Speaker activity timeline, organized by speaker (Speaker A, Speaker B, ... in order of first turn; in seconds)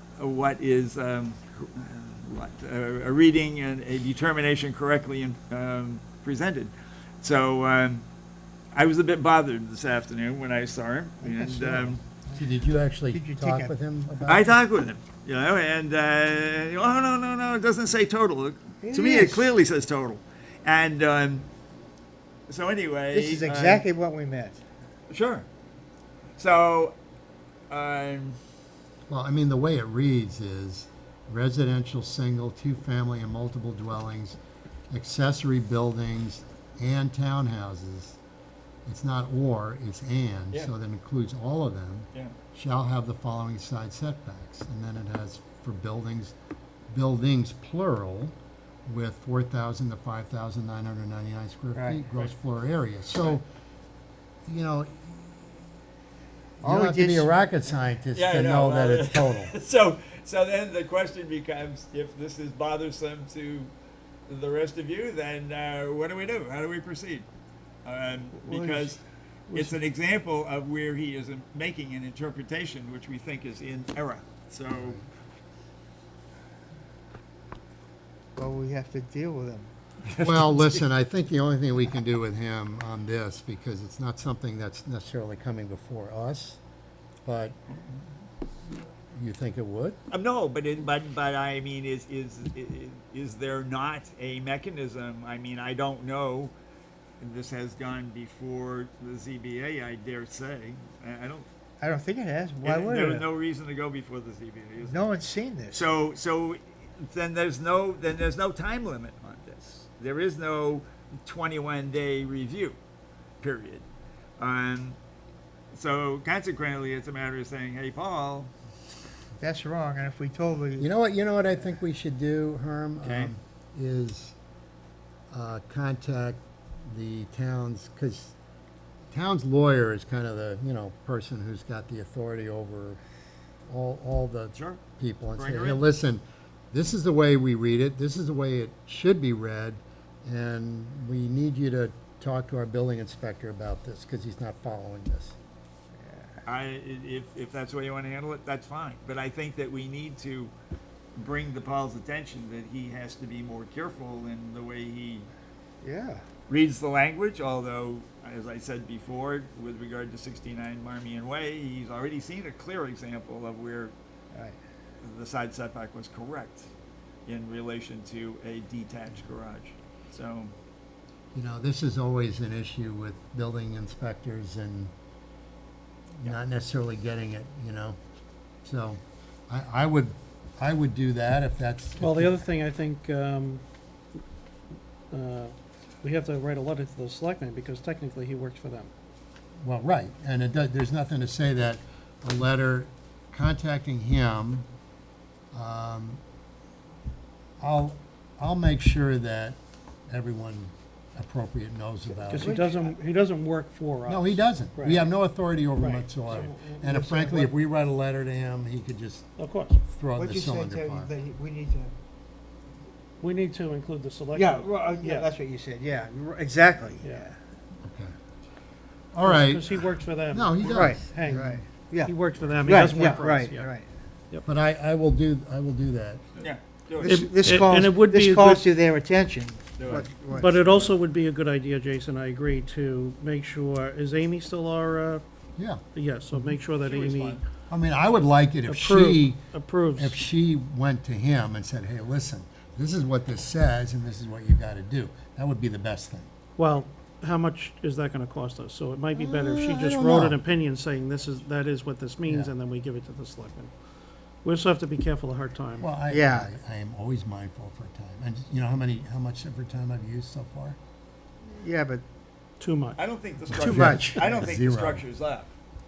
Speaker A: 0.2-8.0, 8.7-12.0, 14.2-21.5, 22.5-23.9, 25.1-25.4, 26.4-26.9, 27.7-28.4, 58.1-63.7, 64.3-67.2, 67.8-75.0, 80.0-80.8, 90.1-96.5, 97.2-101.5, 102.6-105.0, 105.7-112.8, 113.4-113.8, 114.4-115.0, 115.7-118.5, 123.0-123.3, 134.5-134.8, 135.3-135.9, 146.4-150.5, 151.2-155.3, 156.5-163.9, 165.0-166.7, 167.2-170.5, 226.4-227.3, 229.8-230.9, 236.8-237.4, 262.9-265.5
Speaker B: 11.2-12.4, 13.1-13.7, 18.8-19.5, 23.1-24.6, 51.7-52.0, 56.6-57.3, 68.4-69.0, 78.3-79.7, 101.8-103.3, 104.8-105.9, 119.4-120.9, 146.0-146.4, 155.8-156.2, 202.3-202.9, 206.3-207.5, 210.2-211.9, 214.3-217.3, 220.6-223.9, 227.0-230.5, 256.1-256.5, 261.4-262.0, 263.5-264.3
Speaker C: 12.3-14.5, 29.1-34.4, 34.9-38.2, 38.9-46.3, 46.9-48.3, 48.9-53.4, 54.5-55.6, 56.6-59.5, 80.2-86.6, 87.2-87.6, 89.1-90.0, 120.8-124.3, 125.3-128.3, 129.1-133.0, 133.7-145.3, 171.3-174.9, 176.2-178.0, 178.6-182.3, 189.6-194.7, 195.5-196.2, 197.6-199.6, 200.1-202.6, 204.1-209.3, 209.8-211.1, 217.8-218.1, 219.1-221.6, 224.4-226.2, 235.6-235.8, 236.3-236.6, 237.7-246.3, 249.1-250.4, 252.2-252.5, 255.8-260.8, 263.5-265.0
Speaker D: 182.0-183.6, 185.1-188.9, 202.3-205.1, 205.8-206.1, 209.4-209.8, 213.2-215.3, 217.0-217.3, 219.2-223.7, 227.0-228.6, 230.3-235.2, 235.9-237.4, 238.7-240.2, 246.6-253.7, 254.4-255.9, 262.6-263.0